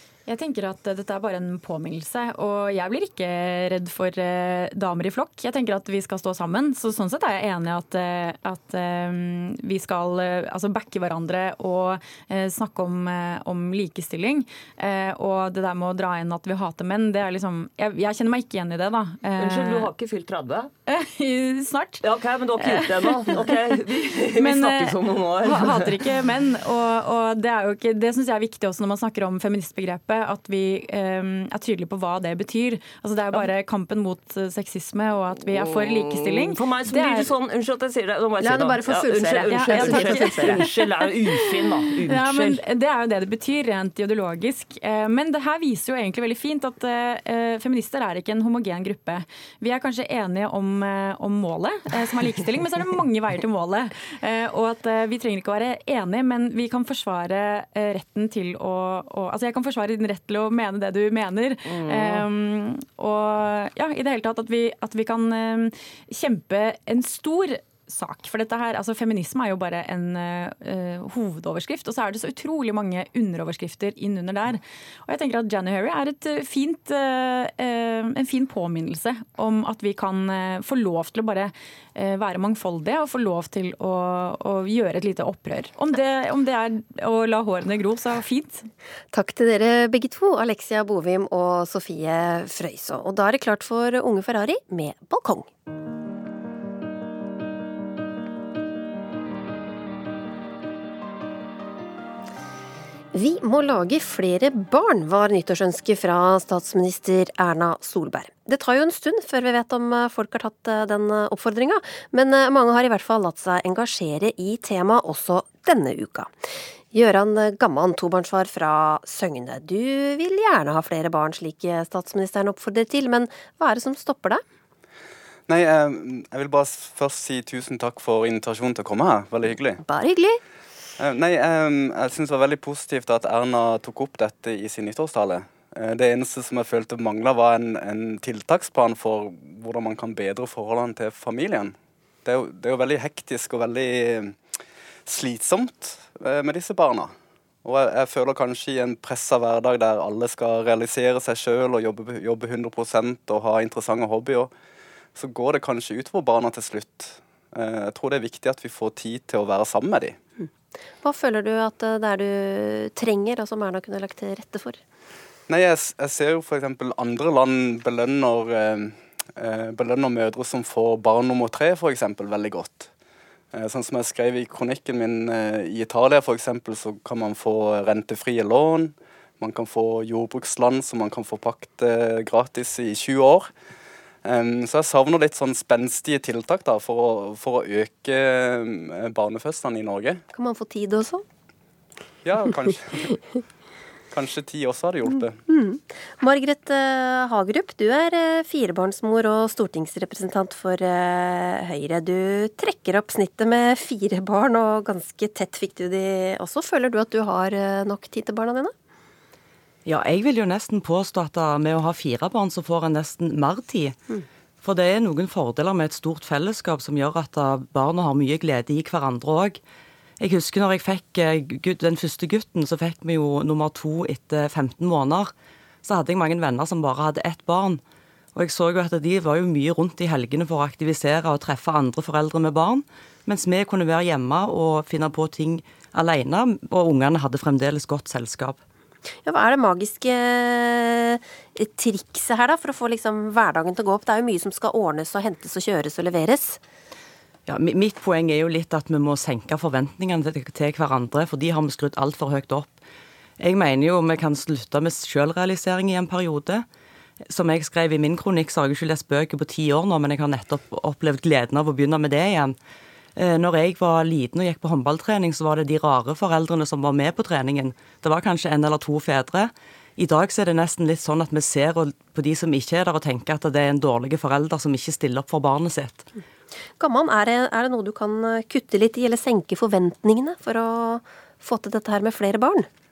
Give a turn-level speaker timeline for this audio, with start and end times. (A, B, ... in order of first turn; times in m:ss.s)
0:00.3-0:19.9 A
0:19.4-0:20.7 B
0:20.9-0:37.3 A
0:22.0-0:26.2 B
0:35.4-0:42.6 B
0:38.4-0:40.6 C
0:39.5-1:28.6 A
1:01.7-1:02.3 B
1:29.1-1:35.5 C
1:43.1-1:56.3 C
1:56.9-2:04.4 C
2:05.5-2:09.8 D
2:09.8-2:10.4 C
2:11.0-2:24.4 D
2:25.1-2:27.1 D
2:27.6-2:34.5 D
2:35.2-2:40.2 D
2:41.0-2:44.8 C
2:45.5-2:52.9 D
2:53.5-3:03.5 D
3:04.2-3:10.2 D
3:10.3-3:11.2 C
3:12.2-3:13.2 D
3:14.1-3:15.4 D
3:15.5-3:28.7 C
3:29.8-3:34.0 E
3:34.6-3:39.6 E
3:40.2-3:45.3 E
3:45.8-3:47.8 E
3:48.4-3:58.6 E
3:59.2-4:06.6 C
4:07.5-4:12.8 E
4:13.4-4:16.7 E
4:17.3-4:22.6 E
4:23.2-4:36.1 E
4:36.8-4:42.7 C